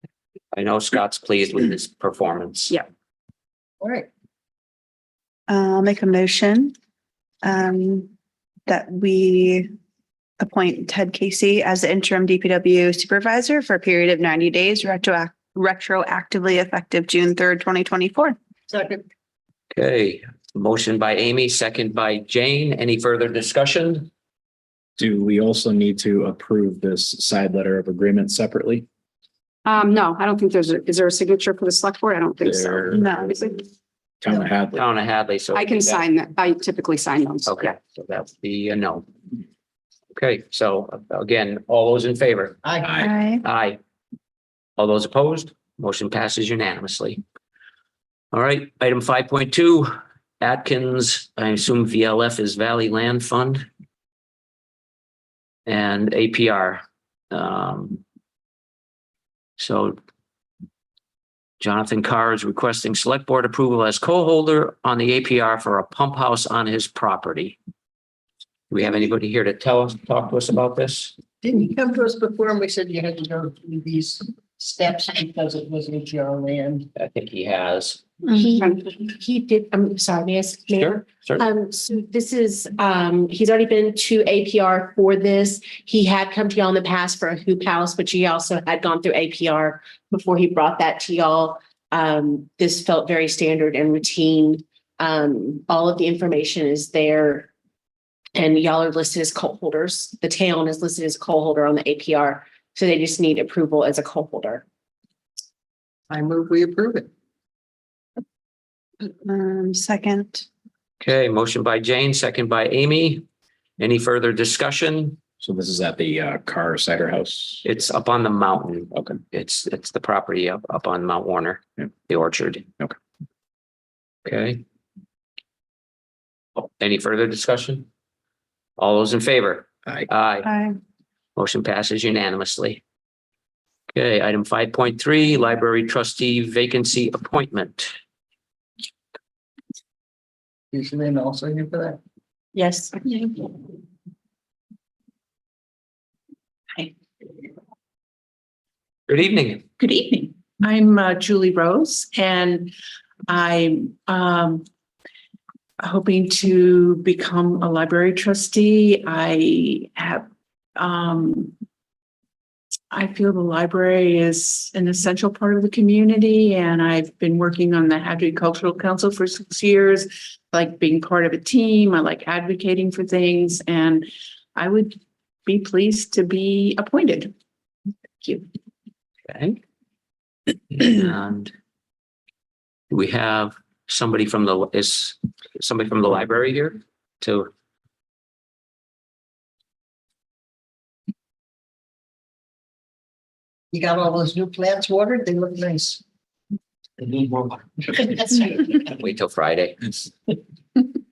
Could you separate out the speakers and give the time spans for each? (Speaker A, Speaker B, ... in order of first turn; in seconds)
Speaker A: 0.5-2.7, 19.7-24.1, 34.7-36.0, 37.5-39.0, 40.1-42.6, 43.4-43.8, 44.8-47.2, 48.3-53.7, 55.7-58.0, 59.6-60.0, 61.6-67.6, 68.7-71.1, 77.0-78.0, 80.7-81.4, 111.0-113.2, 113.8-115.2, 117.6-122.6, 124.2-124.6, 126.6-127.9, 128.8-130.5, 131.4-132.8, 133.9-137.9, 149.1-149.6, 179.3-179.6, 180.7-181.5, 182.9-187.5, 198.7-199.9
Speaker B: 3.8-4.1, 18.7-19.0, 42.6-42.9, 71.4-76.9, 106.1-107.1, 140.7-142.0, 193.7-196.0, 197.0-198.4
Speaker C: 5.5-6.7, 7.4-8.1, 8.7-9.7, 10.4-18.4, 32.9-33.3, 43.0-43.4, 109.2-110.5, 130.4-130.8
Speaker D: 25.0-28.9, 32.4-33.0, 34.2-34.8, 115.4-117.6, 118.9-119.2
Speaker E: 29.6-33.6, 35.5-37.7
Speaker F: 78.3-81.0, 81.5-97.5, 98.4-104.6
Speaker G: 142.6-142.9, 149.8-152.7, 153.3-154.6, 155.8-161.5, 162.9-177.3, 178.2-178.4